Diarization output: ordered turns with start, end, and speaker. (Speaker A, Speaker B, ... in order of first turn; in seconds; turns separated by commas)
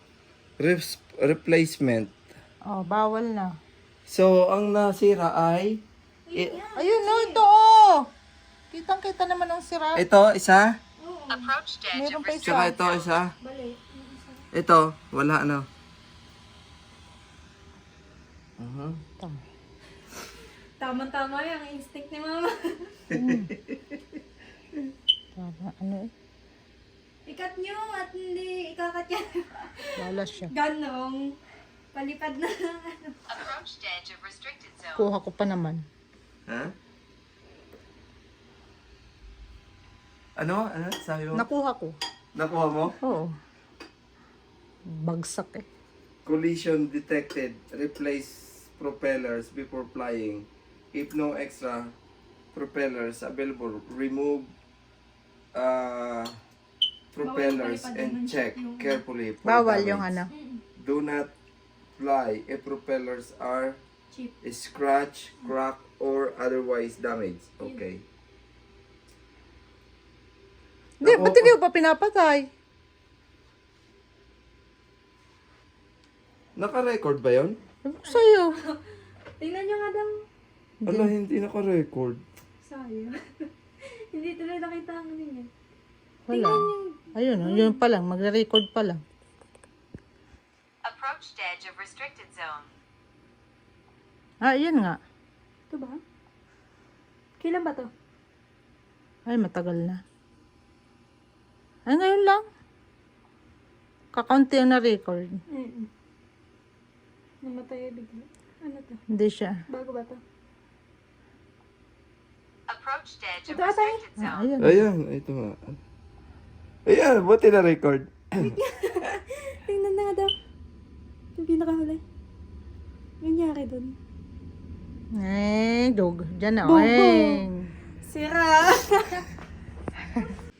Speaker A: 0.6-2.1, Speaker B: 2.7-3.5, Speaker A: 4.1-5.8, Speaker C: 6.3-7.4, Speaker B: 6.8-8.0, Speaker B: 8.7-10.0, Speaker A: 9.9-10.7, Speaker C: 11.0-11.5, Speaker D: 11.3-13.1, Speaker B: 11.9-12.7, Speaker A: 12.4-13.3, Speaker C: 13.4-14.4, Speaker A: 14.5-15.7, Speaker A: 18.6-19.0, Speaker C: 20.8-23.0, Speaker B: 23.1-23.5, Speaker B: 25.4-26.1, Speaker C: 27.2-31.2, Speaker B: 30.0-30.5, Speaker C: 31.9-33.2, Speaker D: 33.3-35.0, Speaker B: 34.9-35.8, Speaker A: 36.5-36.7, Speaker A: 40.4-41.4, Speaker B: 41.3-41.9, Speaker A: 42.4-42.9, Speaker B: 43.0-43.3, Speaker B: 45.0-45.6, Speaker A: 46.2-51.9, Speaker A: 52.5-54.5, Speaker A: 55.5-56.3, Speaker A: 57.1-60.1, Speaker C: 57.2-59.0, Speaker B: 59.4-60.3, Speaker C: 60.3-60.6, Speaker A: 60.8-61.3, Speaker A: 62.0-63.8, Speaker A: 64.4-68.0, Speaker B: 71.0-72.5, Speaker A: 71.0-71.5, Speaker A: 76.6-77.5, Speaker B: 77.8-78.5, Speaker C: 78.0-78.8, Speaker C: 79.4-80.1, Speaker B: 80.8-81.1, Speaker A: 80.8-82.2, Speaker C: 82.6-83.2, Speaker C: 84.1-85.5, Speaker B: 86.3-89.0, Speaker C: 86.3-87.8, Speaker D: 90.8-92.7, Speaker B: 94.5-95.0, Speaker C: 95.7-96.0, Speaker C: 97.4-97.9, Speaker B: 99.3-100.0, Speaker B: 101.9-102.4, Speaker B: 104.2-105.4, Speaker C: 105.5-105.9, Speaker C: 107.5-109.0, Speaker B: 109.1-109.5, Speaker C: 109.7-110.2, Speaker D: 112.7-114.4, Speaker C: 113.5-114.0, Speaker B: 114.2-114.8, Speaker A: 114.6-115.6, Speaker A: 116.9-118.5, Speaker C: 118.4-120.3, Speaker C: 121.4-122.0, Speaker C: 123.2-123.9, Speaker B: 125.2-127.6, Speaker C: 126.6-127.4, Speaker C: 128.0-129.2